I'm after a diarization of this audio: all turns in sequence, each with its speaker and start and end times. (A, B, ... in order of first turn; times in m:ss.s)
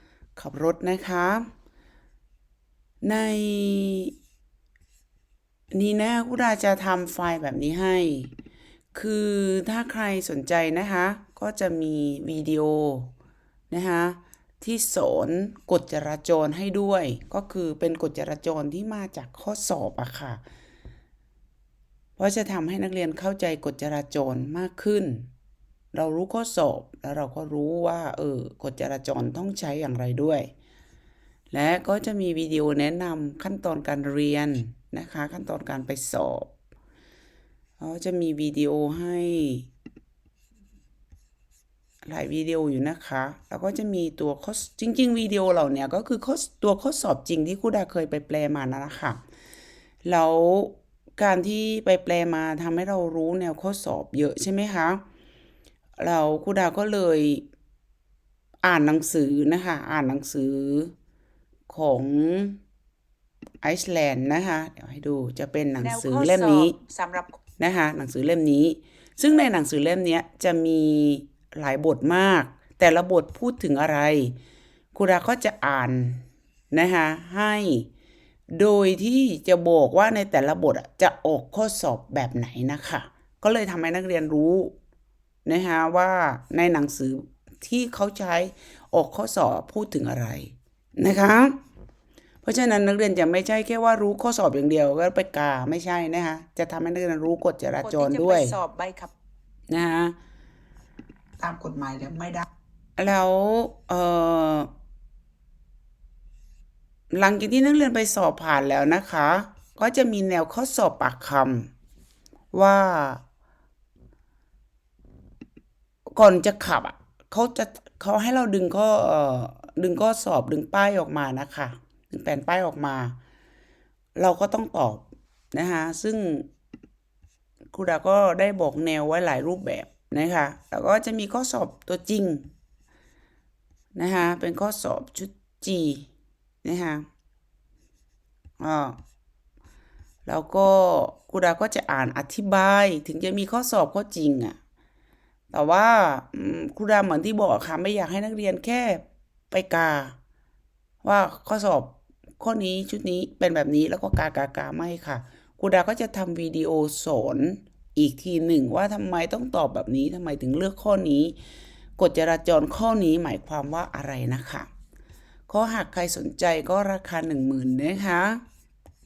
0:00.4-0:01.5 A
0:03.0-0:04.1 A
0:05.7-0:08.3 A
0:08.9-0:13.1 A
0:13.7-0:20.4 A
0:22.2-0:25.3 A
0:25.9-0:30.5 A
0:31.5-0:36.5 A
0:37.8-0:39.7 A
0:42.0-0:49.2 A
0:50.0-0:55.0 A
0:56.0-0:57.4 A
0:58.6-1:00.9 A
1:01.7-1:02.6 A
1:03.6-1:06.8 A
1:05.8-1:07.4 B
1:07.6-1:14.4 A
1:14.9-1:17.9 A
1:18.5-1:24.7 A
1:25.4-1:31.6 A
1:32.4-1:38.6 A
1:37.8-1:39.1 B
1:39.7-1:40.2 A
1:41.4-1:42.4 B
1:43.0-1:44.7 A
1:47.1-1:51.7 A
1:52.5-1:53.2 A
1:56.2-2:03.2 A
2:04.2-2:06.5 A
2:07.7-2:12.5 A
2:13.9-2:16.1 A
2:16.6-2:17.0 A
2:18.6-2:19.0 A
2:20.2-2:24.6 A
2:25.5-2:30.2 A
2:31.0-2:41.4 A
2:42.0-2:44.7 A
2:45.5-2:48.4 A